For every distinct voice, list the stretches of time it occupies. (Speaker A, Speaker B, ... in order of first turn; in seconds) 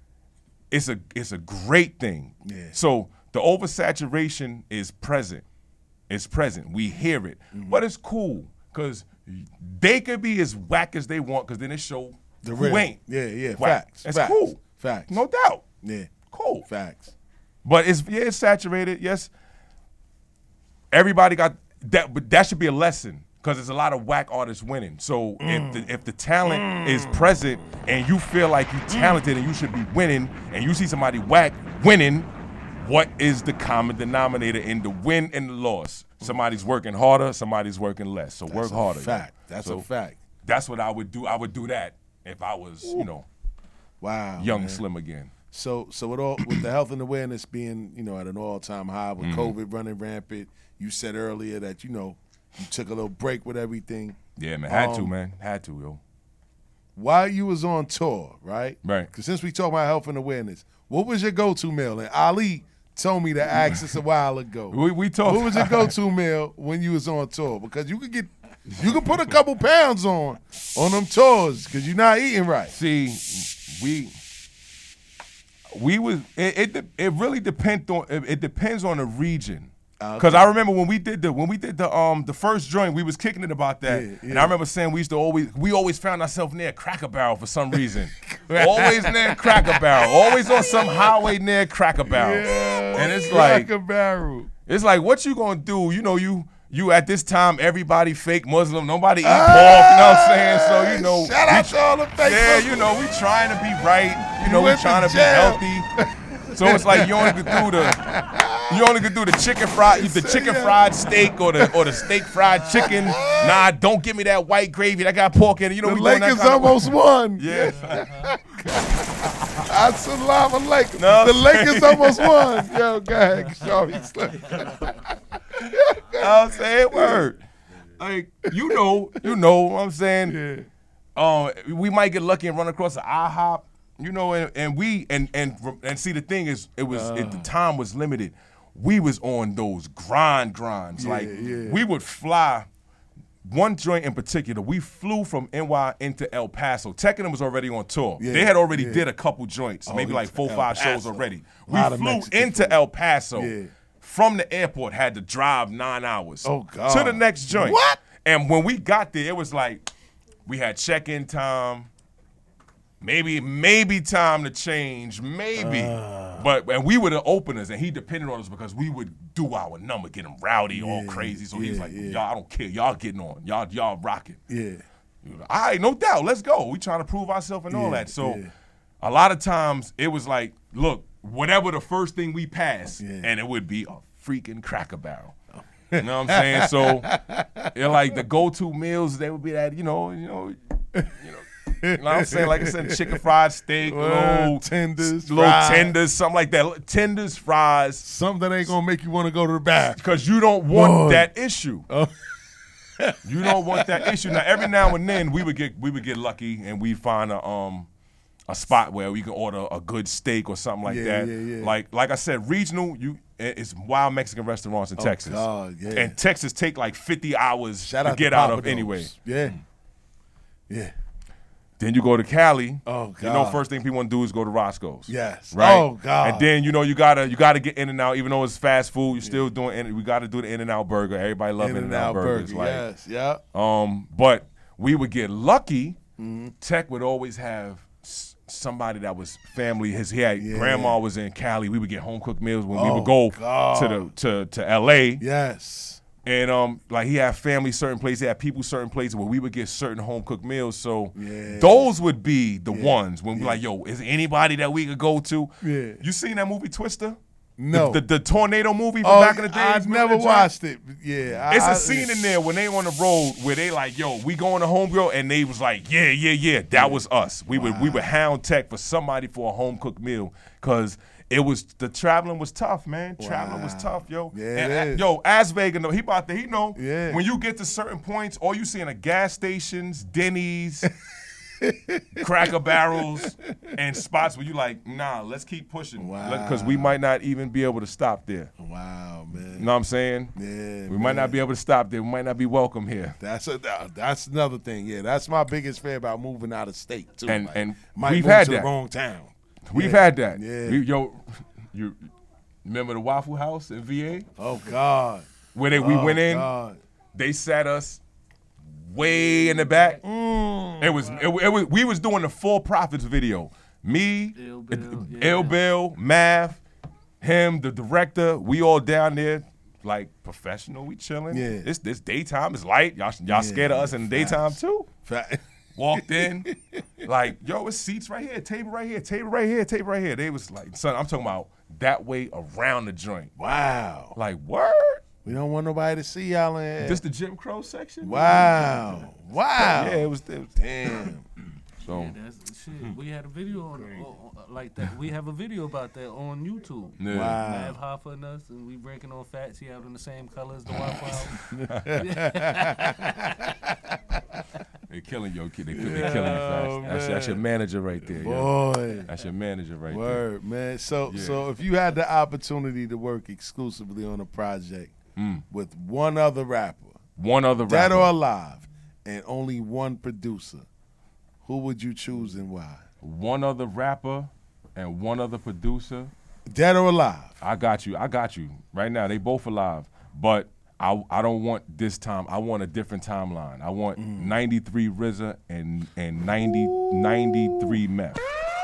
Speaker A: 0.7-5.4, 6.1-13.0, 13.6-15.7, 16.2-16.7, 17.6-19.3, 20.9-39.9, 40.4-43.3, 44.4-45.3, 46.4-46.6, 49.2-49.5, 54.4-56.0, 58.8-59.1, 64.7-66.0, 72.7-74.1, 75.7-93.7, 94.7-105.9, 106.6-108.1, 108.7-118.1, 121.0-122.7, 126.2-127.4, 128.0-130.4, 131.2-142.7, 143.4-159.9, 160.5-161.9, 163.0-174.4, 175.2-178.4, 179.0-185.3, 186.0-187.1, 187.8-190.6, 191.2-198.0, 200.0-201.8, 203.2-207.9, 208.5-219.6, 221.8-232.9, 233.5-236.0, 236.6-245.2, 246.2-257.2, 257.7-260.5, 261.5-280.9, 282.2-288.5, 289.6-290.3, 290.9-293.2, 297.3-298.7, 299.7-302.1, 302.6-304.3, 305.6-306.5, 307.1-308.0, 308.8-310.0, 310.8-314.4, 315.1-316.6, 317.2-324.9, 325.8-326.5, 327.0-333.3, 334.2-335.1, 336.8-339.0, 339.6-340.5, 341.8-342.1, 347.0-347.4, 354.9-358.5, 359.1-360.2, 361.1-361.4, 365.2-365.4, 367.2-368.1, 373.0-376.1, 377.4-388.2
Speaker B: 2.5-2.8, 7.5-7.8, 12.4-15.2, 15.8-17.1, 25.4-25.9, 26.4-27.3, 28.9-29.2, 38.5-40.2, 44.0-44.8, 45.5-55.1, 57.0-72.7, 80.0-80.5, 83.8-84.5, 87.8-91.3, 92.0-94.5, 99.2-103.0, 104.3-113.7, 115.8-127.3, 128.7-129.3, 130.2-130.7, 136.9-137.5, 140.9-141.8, 148.2-149.1, 149.9-152.8, 153.3-153.7, 156.4-158.0, 165.6-166.5, 170.7-172.2, 174.5-174.8, 177.7-178.5, 183.0-183.3, 185.5-188.2, 191.8-193.2, 193.8-196.0, 198.0-200.0, 200.7-201.3, 201.9-202.1, 203.0-204.9, 210.8-211.7, 215.0-216.2, 217.8-219.6, 220.7-220.9, 222.9-223.7, 225.1-226.5, 229.2-229.5, 231.6-233.4, 236.2-236.6, 240.4-241.0, 242.7-244.1, 245.2-246.0, 251.2-251.9, 252.7-253.6, 255.6-256.0, 257.6-258.0, 259.0-262.2, 266.7-268.1, 273.2-275.1, 276.8-277.2, 281.6-282.2, 286.0-287.0, 288.6-289.7, 290.4-291.4, 293.2-300.8, 304.4-306.8, 310.0-311.0, 321.3-321.7, 323.3-326.8, 333.4-334.2, 335.2-337.0, 338.0-341.2, 347.1-347.8, 351.5-353.5, 355.7-357.4, 358.0-359.1, 359.9-365.0, 365.5-367.0, 367.6-370.7, 371.4-372.9, 376.5-377.4, 384.0-384.4, 386.3-387.8
Speaker C: 124.5-124.8, 309.1-310.0, 314.3-315.6, 341.9-351.4, 352.0-353.1